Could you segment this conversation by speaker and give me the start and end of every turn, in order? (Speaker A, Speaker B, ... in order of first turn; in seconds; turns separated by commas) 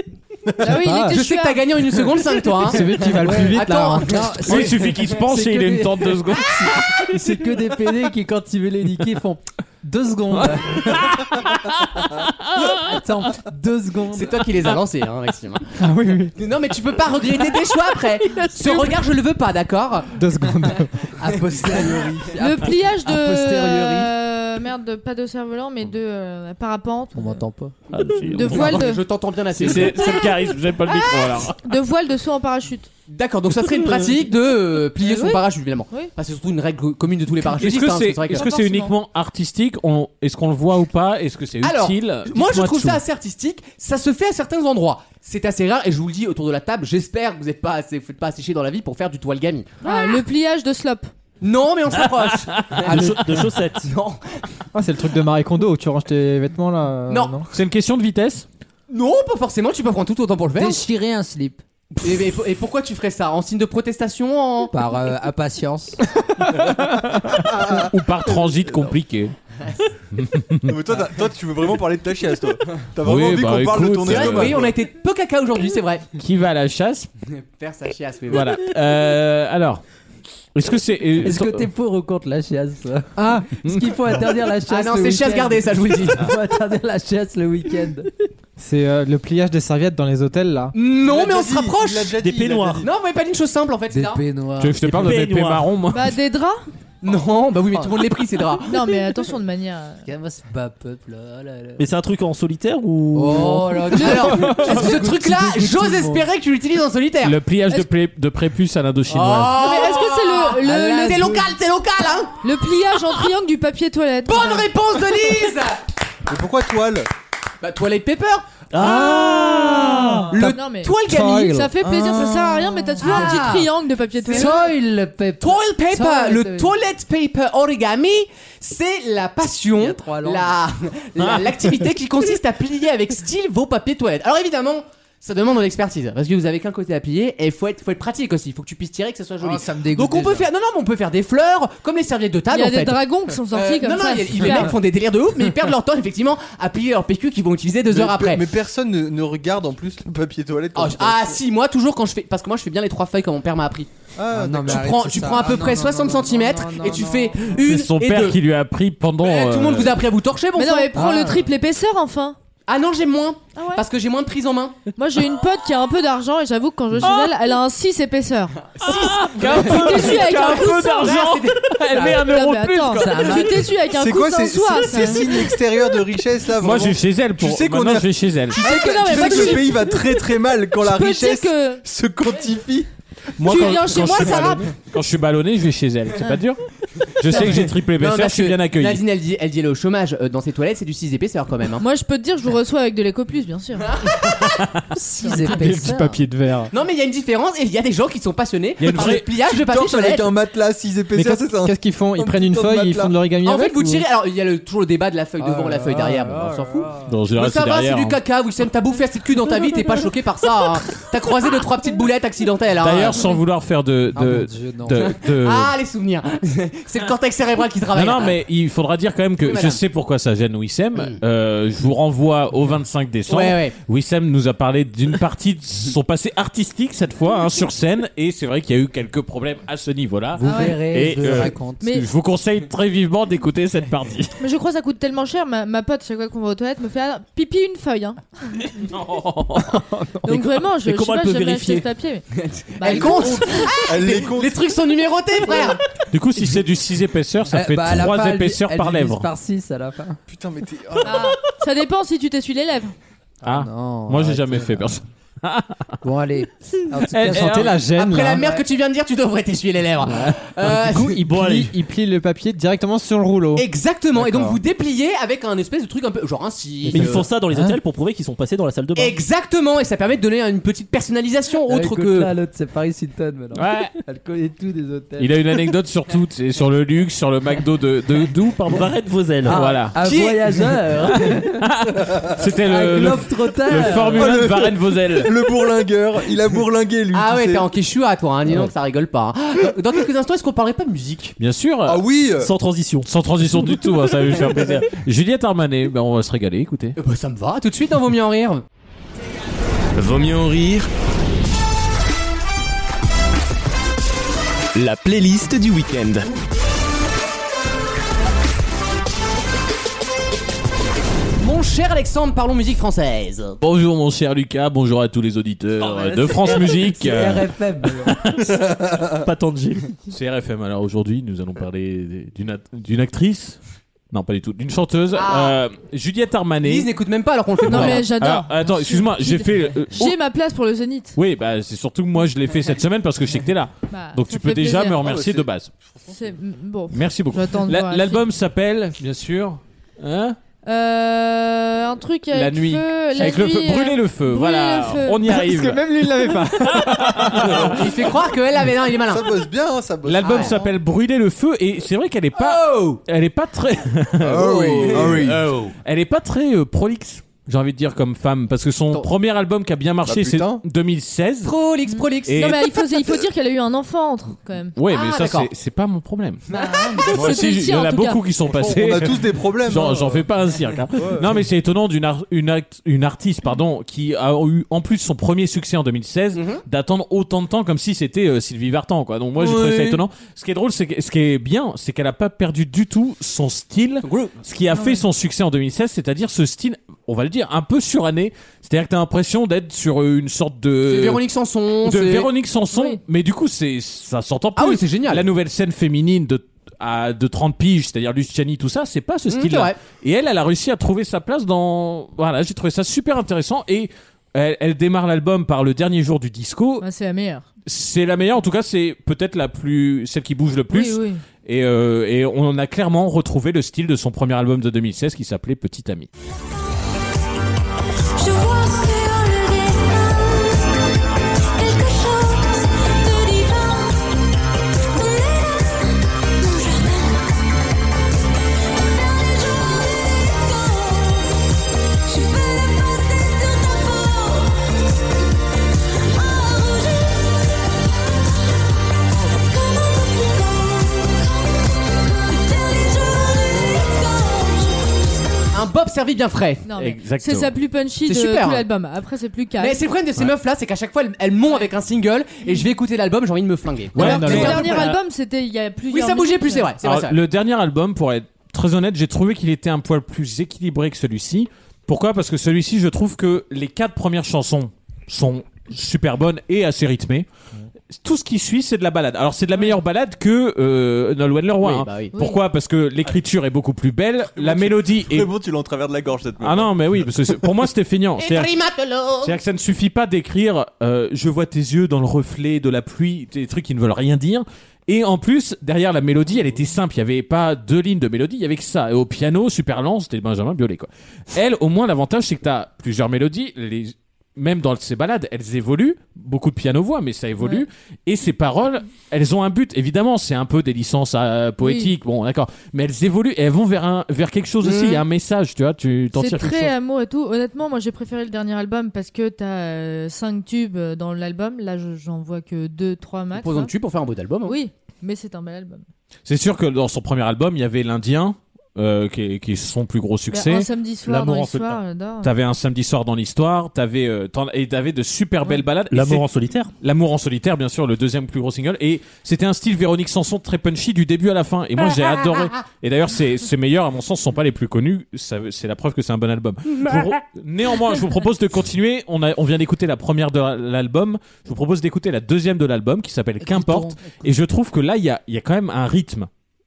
Speaker A: 0.6-1.7, Speaker B: 0.7-1.2, Speaker C: 1.1-4.7, Speaker B: 2.6-4.3, Speaker D: 3.1-11.1, Speaker E: 4.5-7.1, Speaker E: 10.4-12.8, Speaker D: 12.6-14.4, Speaker C: 14.1-15.7, Speaker B: 15.8-16.4, Speaker C: 16.4-20.8, Speaker B: 20.2-20.9, Speaker D: 21.2-24.1, Speaker C: 21.5-22.1, Speaker A: 22.4-27.4, Speaker D: 27.1-27.8, Speaker E: 27.9-28.8, Speaker A: 28.3-29.1, Speaker C: 28.4-30.3, Speaker E: 29.6-31.6, Speaker C: 30.9-31.4, Speaker A: 31.6-32.9, Speaker C: 33.1-38.5, Speaker A: 35.0-36.1, Speaker E: 37.5-43.0, Speaker A: 38.3-38.9, Speaker C: 41.6-50.0, Speaker A: 49.8-51.1, Speaker C: 51.4-54.2, Speaker E: 52.1-53.0, Speaker F: 52.8-53.9, Speaker B: 54.7-57.5, Speaker C: 57.1-57.4, Speaker E: 57.5-58.5, Speaker C: 58.9-60.8, Speaker D: 60.6-61.6, Speaker C: 62.0-64.7, Speaker D: 64.7-66.0, Speaker E: 66.5-69.3, Speaker G: 67.3-69.0, Speaker E: 70.1-70.8, Speaker G: 70.7-74.8, Speaker E: 73.0-74.6, Speaker C: 74.1-76.1, Speaker E: 76.2-77.1, Speaker C: 77.3-78.6, Speaker E: 78.3-79.8, Speaker E: 80.5-81.7, Speaker D: 81.2-88.1, Speaker B: 83.2-83.6, Speaker E: 83.7-83.9, Speaker C: 84.7-86.3, Speaker B: 88.6-90.8, Speaker C: 90.8-92.2, Speaker G: 91.0-92.9, Speaker F: 92.2-92.8, Speaker C: 92.8-94.2, Speaker D: 93.9-94.8, Speaker E: 94.6-96.2, Speaker F: 94.8-95.7, Speaker A: 95.9-96.6, Speaker C: 97.0-99.0, Speaker A: 98.7-100.0, Speaker D: 100.0-101.8, Speaker F: 101.8-103.9, Speaker D: 103.1-106.3, Speaker C: 104.0-107.4, Speaker A: 104.1-104.6, Speaker E: 107.2-109.7, Speaker C: 109.1-112.4, Speaker A: 109.6-111.3, Speaker D: 110.6-111.5, Speaker A: 112.4-114.7, Speaker C: 114.3-115.8, Speaker G: 116.3-117.1, Speaker C: 117.6-119.7, Speaker F: 118.7-120.4, Speaker C: 120.3-121.5, Speaker A: 120.4-124.6, Speaker B: 121.0-122.2, Speaker D: 122.0-123.7, Speaker C: 123.0-123.7, Speaker C: 124.2-124.6, Speaker D: 124.2-126.7, Speaker C: 125.4-148.5, Speaker D: 129.8-130.6, Speaker D: 139.4-140.5, Speaker A: 142.5-144.8, Speaker G: 147.9-151.4, Speaker C: 150.8-153.9, Speaker G: 154.2-155.4, Speaker D: 154.3-157.4, Speaker C: 154.6-158.4, Speaker E: 157.5-160.0, Speaker C: 159.2-161.0, Speaker A: 160.6-162.4, Speaker D: 161.0-161.5, Speaker C: 162.7-164.8, Speaker A: 163.6-163.8, Speaker A: 165.0-168.6, Speaker C: 168.8-172.2, Speaker E: 168.8-173.7, Speaker A: 169.4-171.1, Speaker A: 172.2-176.0, Speaker D: 173.0-173.6, Speaker G: 173.9-182.9, Speaker E: 176.6-179.3, Speaker A: 178.6-181.8, Speaker E: 183.4-186.6, Speaker A: 183.4-184.7, Speaker C: 183.5-184.6, Speaker E: 187.2-189.0, Speaker C: 187.3-191.8, Speaker A: 187.3-187.6, Speaker A: 191.8-193.9, Speaker C: 193.9-194.6, Speaker D: 194.9-196.2, Speaker B: 195.2-196.7, Speaker E: 195.6-196.0, Speaker C: 196.7-200.3, Speaker E: 198.8-199.3, Speaker G: 199.0-203.2, Speaker B: 201.2-204.1, Speaker C: 203.4-213.3, Speaker D: 205.4-207.1, Speaker E: 207.1-208.2, Speaker E: 212.8-215.8, Speaker D: 214.2-215.1, Speaker C: 215.0-218.4, Speaker E: 217.9-234.3, Speaker C: 219.4-219.8, Speaker C: 223.3-223.8, Speaker D: 230.4-231.8, Speaker A: 230.4-230.8, Speaker A: 231.8-232.1, Speaker A: 234.4-238.6, Speaker E: 238.8-239.8, Speaker A: 240.2-242.2, Speaker F: 240.8-241.9, Speaker C: 242.4-245.8, Speaker A: 242.8-243.8, Speaker G: 243.9-244.6, Speaker E: 246.1-249.3, Speaker D: 247.5-250.2, Speaker G: 250.3-251.3, Speaker A: 251.0-252.9, Speaker D: 253.4-255.0, Speaker E: 253.4-255.8, Speaker D: 256.0-257.7, Speaker E: 257.0-257.8, Speaker B: 257.2-258.5, Speaker C: 257.9-261.2, Speaker D: 258.4-258.6, Speaker E: 260.1-260.3, Speaker B: 260.7-264.6, Speaker F: 261.3-261.7, Speaker C: 263.6-267.3, Speaker F: 266.9-269.2, Speaker B: 266.9-267.8, Speaker C: 269.0-272.3, Speaker D: 271.7-275.4, Speaker E: 273.5-273.9, Speaker E: 275.2-278.9, Speaker F: 278.6-279.6, Speaker D: 279.4-281.7, Speaker E: 279.4-280.0, Speaker C: 280.0-280.7, Speaker E: 281.2-285.3, Speaker D: 282.7-284.4, Speaker G: 284.1-287.7, Speaker C: 287.1-291.4, Speaker E: 291.4-292.0, Speaker G: 291.9-292.5, Speaker F: 292.4-293.1, Speaker E: 293.1-297.0, Speaker C: 297.0-298.6, Speaker H: 299.9-300.9, Speaker H: 304.8-306.3, Speaker C: 311.4-313.6, Speaker E: 313.6-317.5, Speaker D: 315.8-318.2, Speaker E: 318.1-318.5, Speaker F: 319.2-319.9, Speaker E: 320.1-323.6, Speaker E: 324.1-326.9, Speaker C: 325.1-325.6, Speaker C: 326.6-328.1, Speaker E: 327.6-330.2, Speaker A: 327.7-331.2, Speaker E: 331.2-335.7, Speaker A: 333.9-335.0, Speaker G: 335.0-336.1, Speaker A: 336.1-338.2, Speaker E: 336.9-340.4, Speaker A: 340.6-345.3, Speaker E: 342.3-347.8, Speaker B: 345.3-347.7, Speaker G: 347.4-347.8, Speaker C: 347.7-349.4, Speaker G: 349.0-350.5, Speaker E: 350.1-361.5, Speaker C: 350.2-350.6, Speaker C: 352.4-353.0, Speaker G: 354.2-355.4, Speaker C: 354.3-355.8, Speaker G: 360.1-360.6, Speaker C: 361.4-362.6, Speaker A: 361.9-364.8, Speaker E: 362.3-362.7, Speaker E: 364.8-366.4, Speaker C: 364.9-365.5, Speaker A: 366.5-368.2, Speaker C: 366.5-367.1, Speaker E: 367.1-391.2, Speaker G: 368.5-370.3, Speaker G: 371.0-371.4, Speaker C: 376.3-376.6, Speaker C: 379.4-380.0, Speaker C: 384.0-384.4, Speaker A: 384.7-385.0, Speaker C: 390.9-392.3, Speaker E: 391.8-406.9, Speaker A: 392.7-393.0, Speaker C: 394.6-395.3, Speaker C: 399.3-399.8, Speaker A: 406.8-407.5, Speaker E: 407.7-416.1, Speaker A: 410.7-411.2, Speaker I: 418.2-420.7, Speaker I: 421.6-424.2, Speaker I: 424.8-427.3, Speaker I: 428.7-431.4, Speaker I: 432.1-434.8, Speaker I: 436.0-437.9, Speaker I: 439.2-445.5, Speaker C: 445.5-446.6, Speaker A: 446.6-449.8, Speaker E: 446.8-447.5, Speaker C: 448.1-448.6, Speaker C: 449.6-455.0, Speaker E: 453.9-455.0, Speaker A: 454.0-456.8, Speaker B: 454.0-454.6, Speaker C: 455.9-457.2, Speaker E: 456.8-467.3, Speaker E: 467.9-475.3, Speaker C: 471.6-472.1, Speaker A: 472.1-472.4, Speaker G: 474.4-476.8, Speaker E: 476.4-478.5, Speaker C: 478.2-479.4, Speaker E: 479.2-506.7, Speaker A: 497.4-497.7, Speaker A: 501.6-501.9, Speaker C: 504.6-505.0, Speaker A: 506.1-513.7, Speaker C: 513.3-514.6, Speaker A: 514.5-515.9, Speaker E: 516.3-520.7, Speaker A: 520.3-522.3, Speaker F: 521.0-521.8, Speaker E: 522.2-526.2, Speaker F: 525.9-526.7, Speaker E: 526.8-546.3, Speaker D: 543.4-544.1